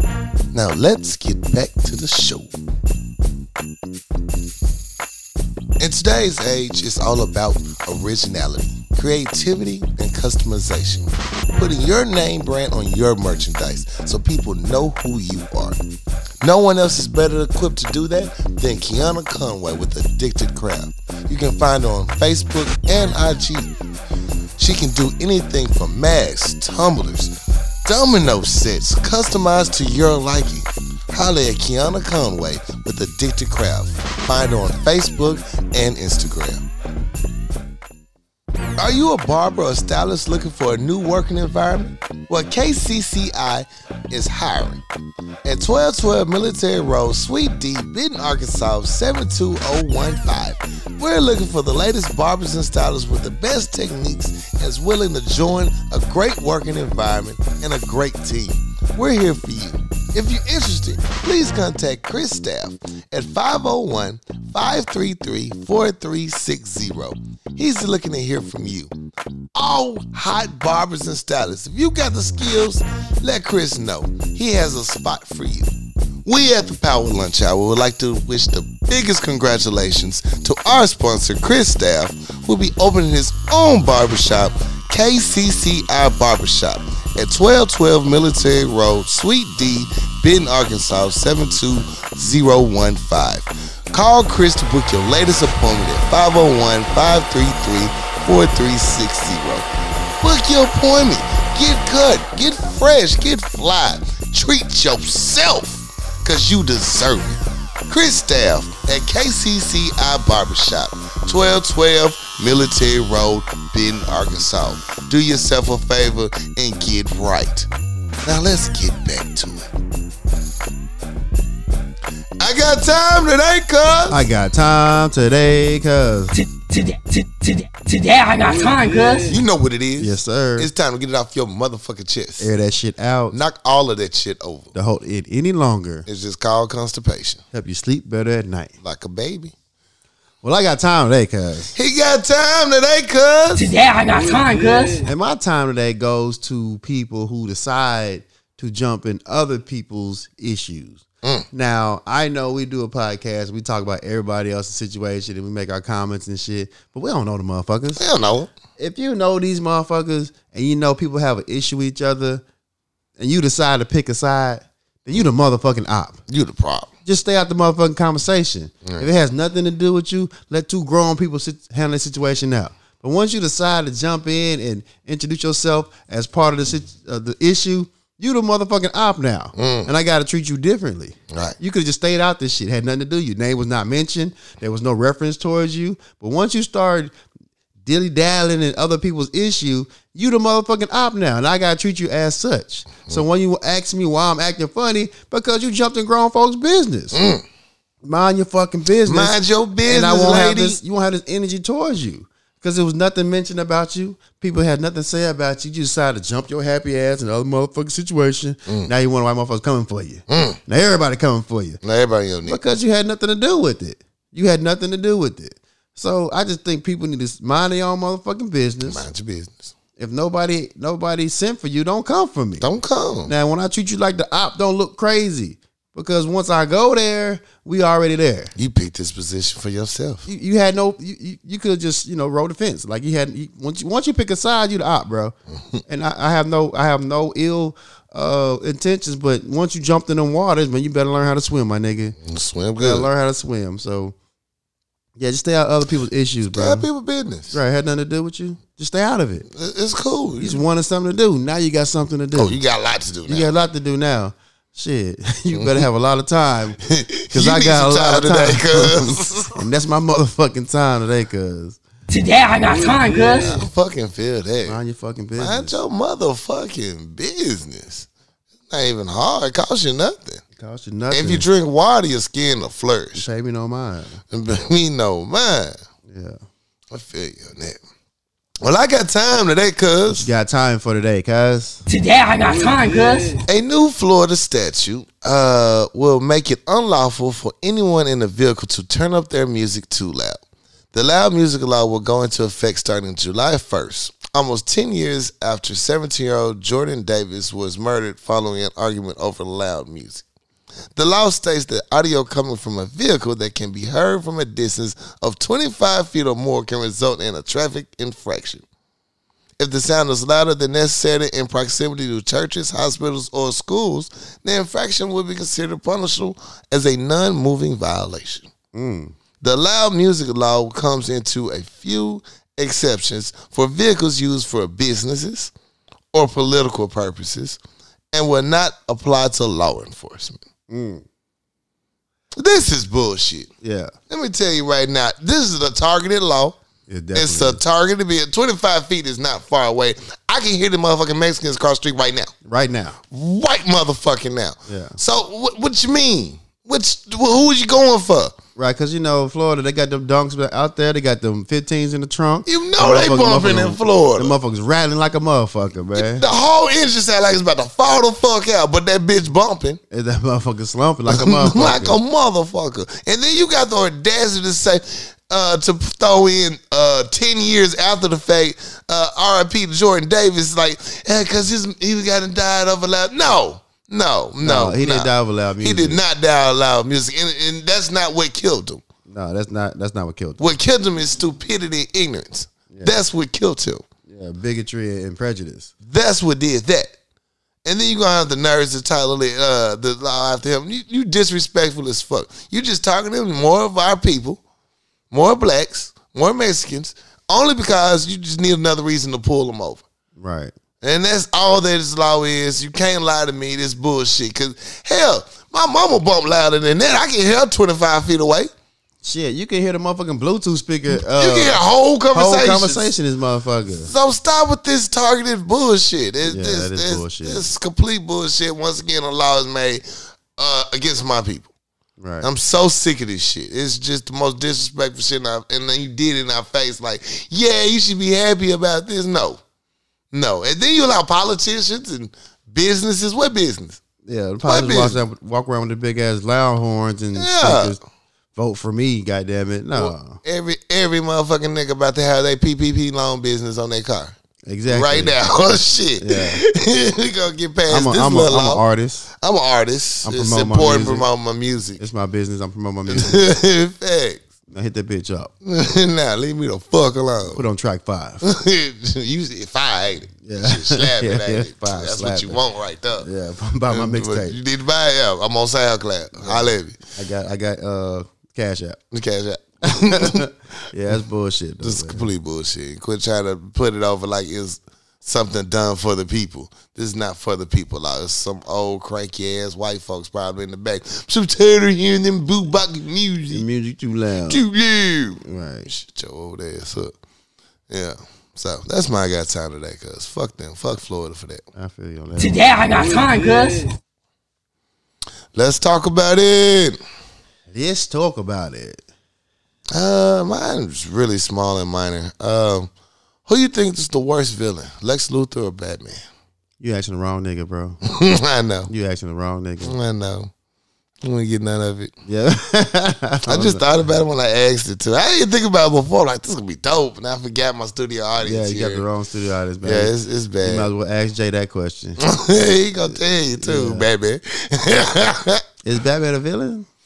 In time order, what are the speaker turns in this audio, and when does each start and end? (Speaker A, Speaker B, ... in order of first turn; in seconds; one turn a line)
Speaker A: 0.5-2.5
Speaker A: 5.8-15.8
Speaker A: 16.4-23.7
Speaker A: 24.6-27.3
Speaker A: 27.9-36.7
Speaker A: 38.8-44.8
Speaker A: 45.5-68.9
Speaker A: 69.5-75.7
Speaker A: 76.2-99.7
Speaker A: 100.2-117.7
Speaker A: 118.2-119.7
Speaker A: 122.4-124.2
Speaker B: 124.1-126.4
Speaker C: 126.4-129.3
Speaker A: 129.3-132.5
Speaker B: 130.0-130.7
Speaker B: 132.4-133.4
Speaker A: 133.3-134.8
Speaker B: 134.8-136.1
Speaker A: 136.1-137.4
Speaker B: 137.5-138.7
Speaker A: 138.8-139.5
Speaker B: 140.4-141.8
Speaker A: 141.7-143.7
Speaker C: 143.6-145.1
Speaker B: 145.0-158.0
Speaker A: 158.0-158.5
Speaker B: 158.8-162.4
Speaker B: 163.2-166.2
Speaker A: 166.3-166.9
Speaker B: 167.1-187.1
Speaker A: 179.6-179.9
Speaker A: 181.3-181.6
Speaker B: 187.8-197.2
Speaker A: 197.1-197.4
Speaker B: 198.0-211.8
Speaker A: 199.1-200.8
Speaker A: 210.3-210.6
Speaker A: 211.8-212.6
Speaker B: 212.4-219.1
Speaker A: 218.9-219.7
Speaker B: 220.0-222.7
Speaker A: 222.6-223.3
Speaker B: 223.3-228.5
Speaker A: 228.6-230.3
Speaker B: 230.3-235.3
Speaker B: 235.9-242.2
Speaker A: 242.2-243.1
Speaker B: 242.8-244.2
Speaker B: 245.2-246.9
Speaker A: 246.5-247.6
Speaker B: 247.5-249.5
Speaker A: 249.5-250.6
Speaker B: 250.4-252.6
Speaker A: 252.4-253.5
Speaker B: 253.3-256.8
Speaker A: 255.6-255.9
Speaker A: 256.8-259.6
Speaker B: 257.3-261.8
Speaker C: 262.1-263.6
Speaker A: 263.5-264.8
Speaker B: 264.6-265.8
Speaker A: 265.4-268.1
Speaker A: 268.7-270.4
Speaker B: 270.6-271.5
Speaker A: 271.1-273.3
Speaker B: 273.1-274.2
Speaker A: 274.3-275.8
Speaker B: 276.1-276.4
Speaker A: 276.9-277.8
Speaker A: 278.6-280.3
Speaker B: 280.1-281.8
Speaker C: 281.9-283.4
Speaker A: 283.5-290.4
Speaker A: 290.9-300.3
Speaker A: 300.9-308.6
Speaker A: 309.6-318.5
Speaker B: 318.7-319.1
Speaker A: 319.4-325.5
Speaker A: 326.1-327.6
Speaker A: 328.1-330.4
Speaker B: 330.7-331.0
Speaker A: 332.4-333.5
Speaker B: 333.6-333.9
Speaker A: 334.1-336.6
Speaker B: 336.9-337.6
Speaker A: 337.1-342.3
Speaker B: 342.5-343.0
Speaker A: 343.1-348.4
Speaker B: 344.7-345.0
Speaker B: 348.6-356.3
Speaker A: 352.5-354.4
Speaker A: 356.0-359.8
Speaker B: 359.9-362.0
Speaker A: 361.1-378.8
Speaker B: 374.4-376.0
Speaker B: 379.1-380.5
Speaker A: 380.4-383.8
Speaker B: 382.7-383.0
Speaker B: 384.1-385.7
Speaker A: 385.8-386.9
Speaker A: 387.6-394.4
Speaker A: 395.1-399.9
Speaker B: 400.2-400.5
Speaker A: 400.8-408.5
Speaker B: 409.0-413.9
Speaker A: 410.9-412.9
Speaker A: 413.9-419.8
Speaker B: 416.2-417.5
Speaker A: 420.4-421.5
Speaker B: 422.0-422.3
Speaker A: 422.2-429.4
Speaker A: 430.1-433.8
Speaker B: 434.1-437.8
Speaker A: 434.4-435.0
Speaker A: 437.2-437.8
Speaker B: 438.4-440.2
Speaker A: 439.8-444.1
Speaker B: 444.5-445.2
Speaker A: 444.7-451.8
Speaker B: 446.0-446.4
Speaker B: 447.7-449.1
Speaker B: 450.0-451.1
Speaker B: 451.8-453.3
Speaker A: 452.9-454.2
Speaker B: 454.5-455.3
Speaker A: 455.4-457.4
Speaker B: 457.3-458.2
Speaker A: 458.2-463.1
Speaker B: 460.2-462.4
Speaker B: 463.0-464.4
Speaker A: 463.7-466.8
Speaker B: 466.2-468.8
Speaker A: 468.9-470.3
Speaker B: 469.6-472.1
Speaker A: 471.6-483.4
Speaker B: 483.3-484.4
Speaker A: 484.3-486.9
Speaker B: 485.2-485.7
Speaker A: 487.7-491.4
Speaker B: 491.6-492.5
Speaker C: 492.2-493.7
Speaker A: 495.3-496.8
Speaker B: 497.5-498.8
Speaker A: 499.7-502.7
Speaker A: 503.3-506.0
Speaker B: 506.6-507.8
Speaker A: 507.9-508.7
Speaker B: 508.7-509.8
Speaker A: 509.6-510.3
Speaker A: 511.0-511.9
Speaker B: 512.1-513.6
Speaker A: 513.3-518.9
Speaker B: 518.2-519.9
Speaker A: 519.6-520.7
Speaker B: 520.4-522.0
Speaker A: 522.0-525.4
Speaker B: 523.4-523.9
Speaker B: 525.6-526.7